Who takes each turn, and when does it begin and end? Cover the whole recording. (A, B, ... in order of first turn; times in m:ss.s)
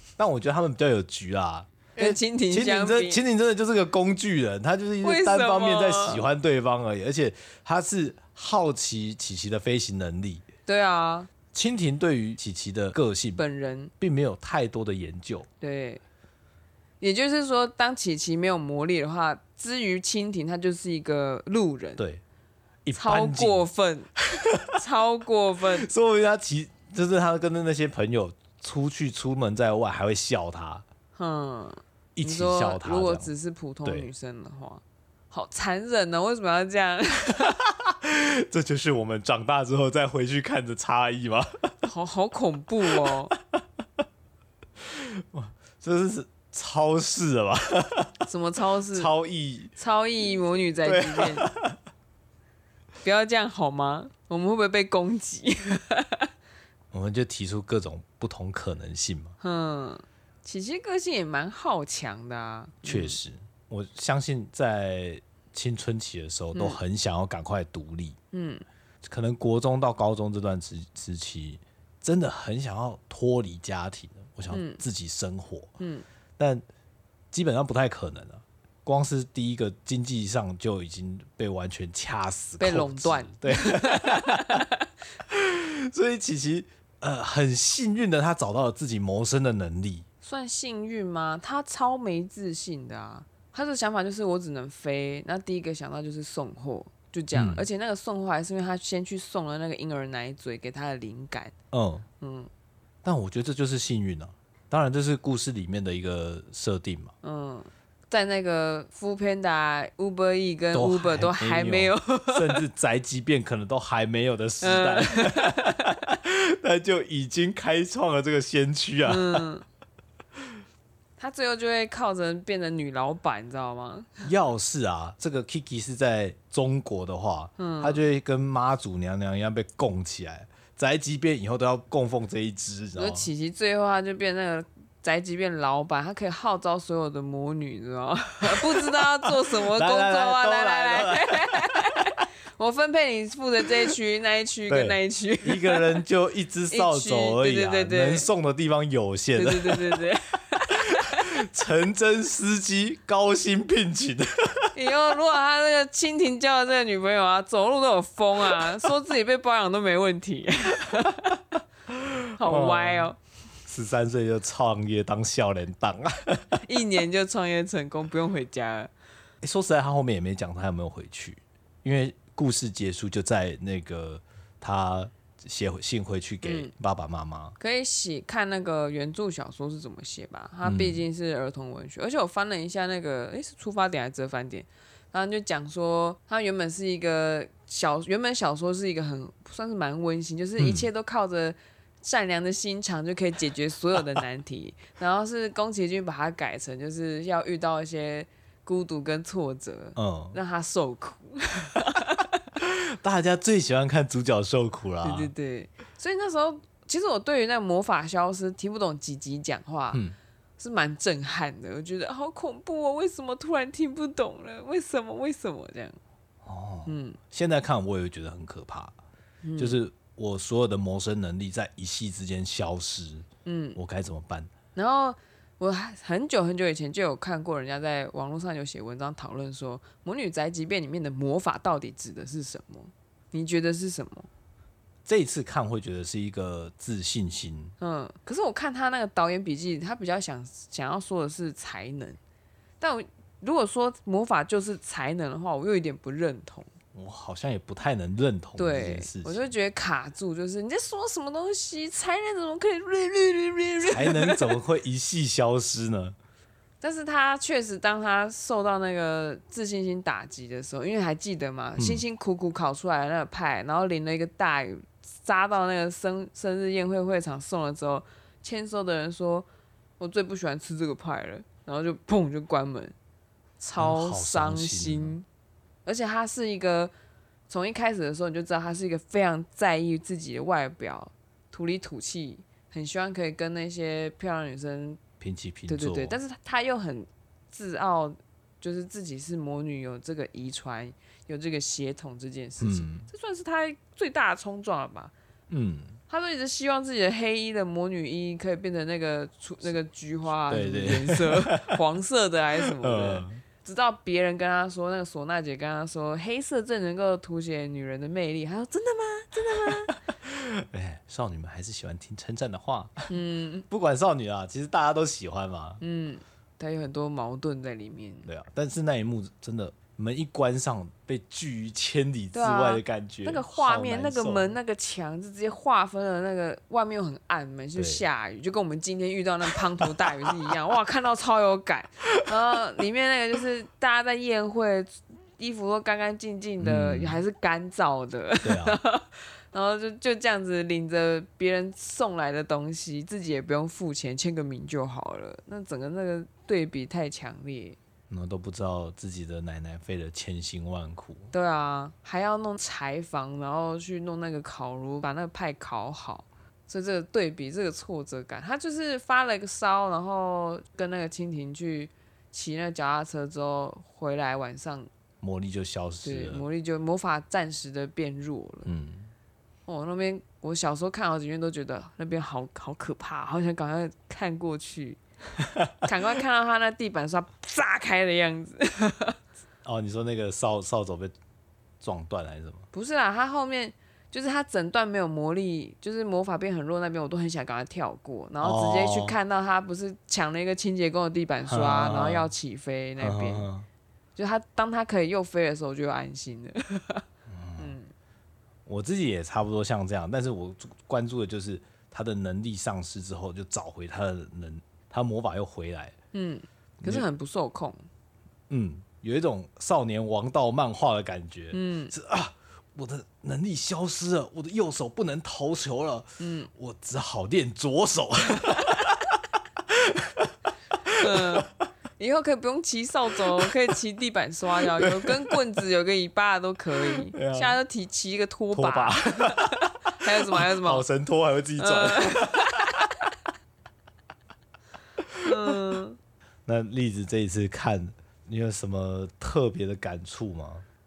0:00.2-0:10.4 A
0:02.0-0:03.2 B
0:05.0-0:06.2 B
0:10.7-0:11.3 B
0:11.5-0:13.4 A
0:13.4-0:13.9 B
0:14.0-0:15.5 A
0:15.6-0:16.0 B
0:17.0-0:22.0 B
0:22.9-0:23.6 A
0:23.0-0:24.1 B
0:24.2-0:24.8 A
0:24.7-0:25.9 B
0:25.8-0:30.8 A
0:31.2-0:37.6 B
0:32.2-0:33.3 A
0:37.8-0:41.9 A
0:41.8-0:43.4 B
0:43.0-0:43.6 A
0:44.8-0:48.2 A
0:48.2-0:49.1 B
0:48.9-0:49.7 A
0:49.8-0:51.5 B
0:50.8-0:51.8 A
0:53.0-0:56.3 B
0:56.9-0:59.4 A
0:59.4-1:03.2 B
1:02.8-1:08.2 A
1:06.5-1:06.8 B
1:08.3-1:08.6 B
1:09.0-1:15.8 A
1:14.5-1:14.8 B
1:15.8-1:16.0 B
1:16.4-1:16.6 A
1:17.3-1:24.6 A
1:22.6-1:24.9 B
1:25.3-1:30.0 A
1:30.2-1:41.5 B
1:37.3-1:37.6 A
1:41.7-1:42.0 A
1:42.2-1:42.5 B
1:43.0-1:47.1 A
1:47.2-1:52.6 B
1:50.7-1:59.5 A
1:54.6-1:56.0 B
1:59.0-1:59.6 B
2:01.2-2:04.3 B
2:04.2-2:13.3 A
2:07.6-2:08.0 B
2:13.0-2:26.0 B
2:18.5-2:21.8 A
2:24.7-2:30.0 A
2:26.7-2:28.3 B
2:29.4-2:31.3 B
2:30.7-2:34.7 A
2:34.7-2:41.5 B
2:38.5-2:38.8 A
2:41.9-2:43.1 A
2:42.4-2:43.2 B
2:43.6-2:46.6 A
2:46.6-2:48.9 B
2:49.4-2:57.6 A
2:56.4-2:56.7 B
2:57.6-3:22.4 B
3:00.6-3:01.0 A
3:10.6-3:10.9 A
3:20.0-3:20.4 A
3:22.6-3:25.3 A
3:25.0-3:30.0 B
3:30.6-3:36.0 B
3:36.4-3:39.0 A
3:36.9-3:37.2 B
3:39.4-3:39.8 B
3:39.6-3:44.5 A
3:43.4-3:43.8 B
3:44.8-3:54.3 B
3:55.0-3:57.8 A
3:57.8-4:02.2 B
4:02.8-4:06.7 B
4:06.9-4:09.5 A
4:08.6-4:14.6 B
4:13.8-4:16.2 A
4:16.8-4:29.5 B
4:21.8-4:22.0 A
4:30.0-4:32.9 B
4:33.6-4:35.2 B
4:33.8-4:35.2 A
4:35.9-4:36.9 B
4:37.5-4:45.0 B
4:45.2-4:46.2 A
4:45.7-4:55.1 B
4:52.6-4:53.1 A
4:55.5-4:56.0 A
4:56.1-5:09.9 B
5:00.5-5:01.8 A
5:02.6-5:03.4 A
5:09.4-5:13.1 A
5:13.1-5:13.7 B
5:13.7-5:15.8 A
5:15.8-5:18.3 B
5:18.3-5:24.5 A
5:22.3-5:47.8 B
5:27.8-5:28.0 A
5:36.6-5:37.2 A
5:38.4-5:38.8 A
5:48.1-5:51.3 A
5:51.3-6:04.9 B
6:05.2-6:06.4 A
6:06.0-6:08.7 B
6:08.7-6:09.1 A
6:09.7-6:15.0 B
6:15.4-6:15.9 A
6:15.8-6:19.2 B
6:19.6-6:21.1 A
6:21.8-6:22.6 A
6:22.7-6:33.5 B
6:28.4-6:29.2 A
6:31.5-6:32.3 A
6:33.0-6:33.7 A
6:34.2-6:37.0 B
6:37.3-6:37.8 A
6:37.6-6:37.9 B
6:38.7-6:45.9 A
6:46.1-6:47.9 B
6:48.5-7:00.3 A
6:51.5-6:51.9 B
6:56.2-6:56.5 B
7:00.9-7:01.6 A
7:01.0-7:01.5 B
7:02.0-7:10.8 B
7:04.6-7:05.4 A
7:06.9-7:07.6 A
7:08.5-7:09.7 A
7:10.2-7:12.9 A
7:11.6-7:12.9 B
7:15.0-7:15.6 A
7:15.2-7:16.0 B
7:16.5-7:20.6 A